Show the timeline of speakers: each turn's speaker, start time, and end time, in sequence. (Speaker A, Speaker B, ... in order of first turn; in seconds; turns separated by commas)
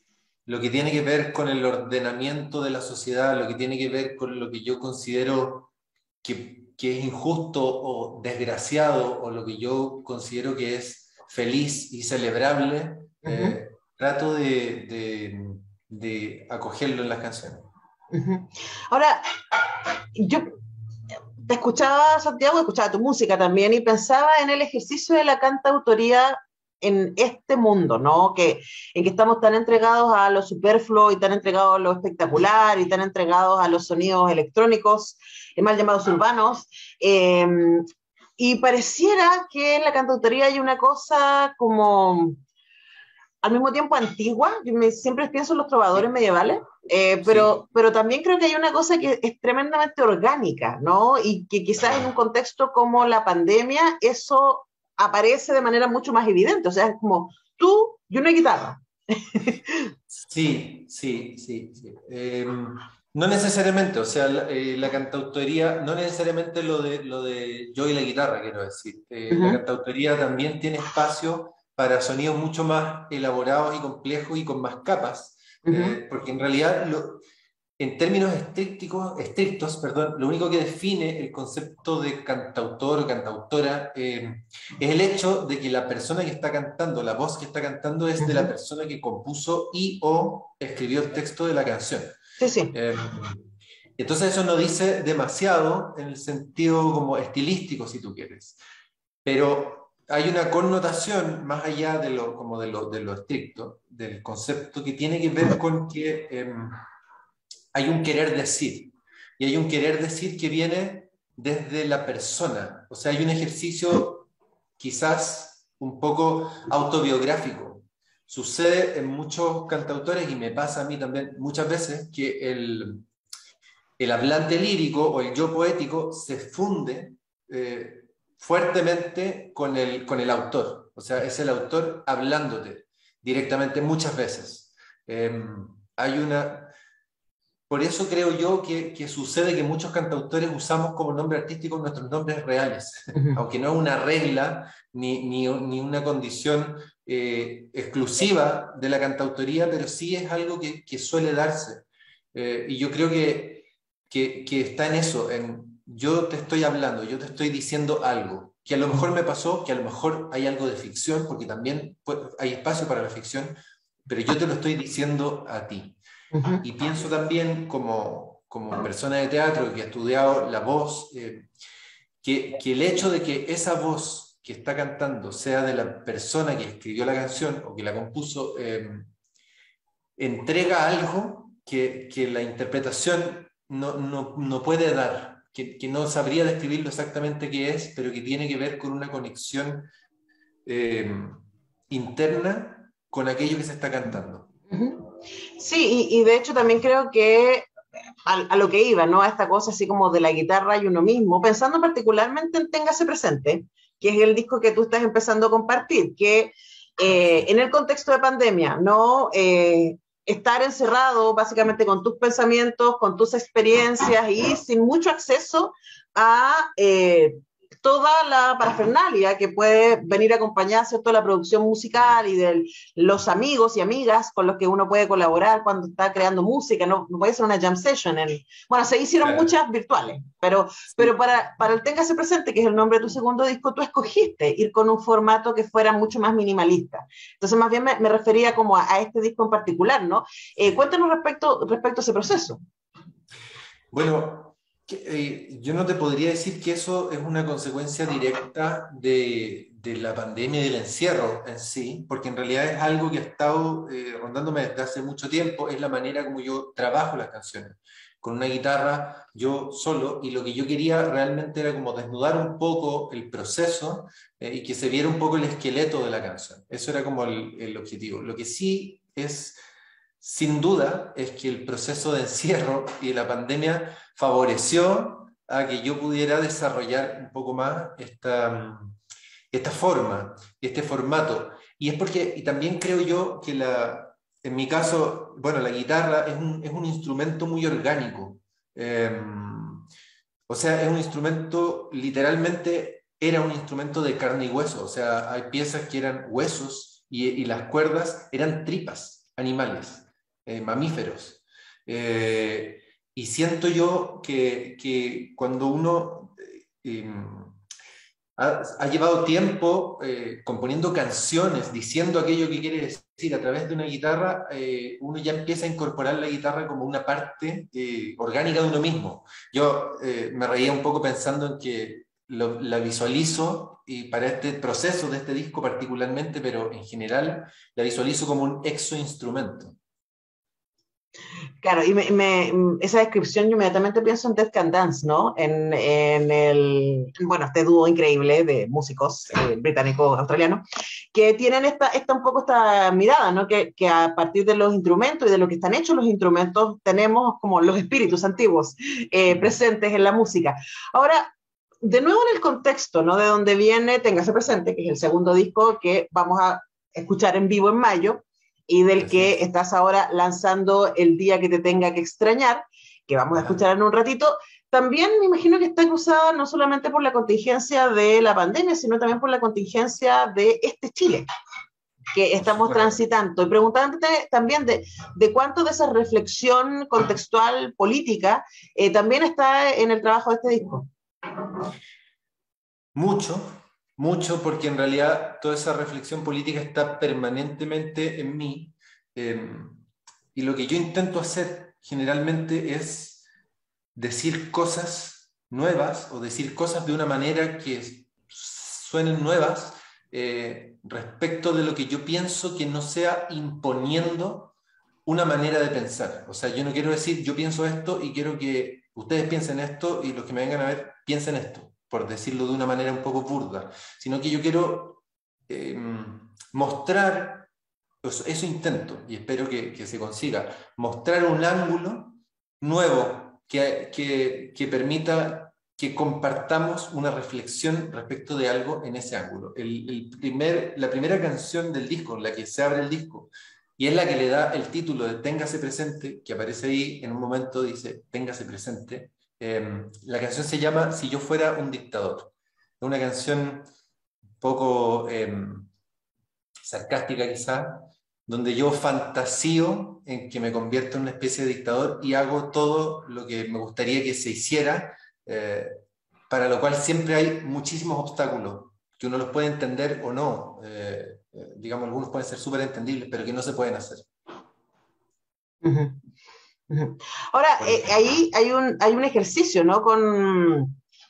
Speaker A: 0.5-5.7, Speaker A: 6.2-17.7, Speaker B: 13.2-13.6, Speaker B: 18.1-19.3, Speaker B: 20.1-20.4, Speaker B: 21.5-37.9, Speaker B: 38.4-42.4, Speaker B: 43.4-59.9, Speaker A: 47.2-47.6, Speaker A: 60.1-77.2, Speaker B: 69.3-69.6, Speaker B: 75.7-76.0, Speaker A: 77.8-92.2, Speaker B: 88.2-88.5, Speaker B: 92.4-92.8, Speaker A: 92.7-93.4, Speaker A: 94.0-98.6, Speaker A: 99.2-106.8, Speaker A: 107.7-123.0, Speaker A: 124.0-136.7, Speaker A: 137.7-163.6, Speaker B: 143.2-143.4, Speaker A: 164.1-166.0, Speaker B: 166.3-166.6, Speaker A: 166.6-171.5, Speaker A: 172.2-179.1, Speaker A: 180.2-189.9, Speaker A: 190.7-194.5, Speaker B: 194.7-195.1, Speaker B: 195.6-197.7, Speaker B: 198.3-242.6, Speaker A: 229.2-229.5, Speaker A: 243.9-269.6, Speaker A: 270.2-279.0, Speaker A: 279.5-289.9, Speaker A: 290.5-307.6, Speaker A: 308.4-329.8, Speaker B: 331.6-371.3, Speaker A: 359.0-359.4, Speaker A: 363.4-363.6, Speaker B: 372.1-380.9, Speaker A: 372.4-372.9, Speaker A: 382.9-393.2, Speaker A: 393.9-404.5, Speaker A: 405.1-417.5, Speaker A: 418.0-443.6, Speaker A: 444.4-445.7, Speaker A: 446.6-455.7, Speaker A: 456.3-464.1, Speaker B: 465.6-466.0, Speaker B: 466.7-470.7, Speaker A: 467.6-467.9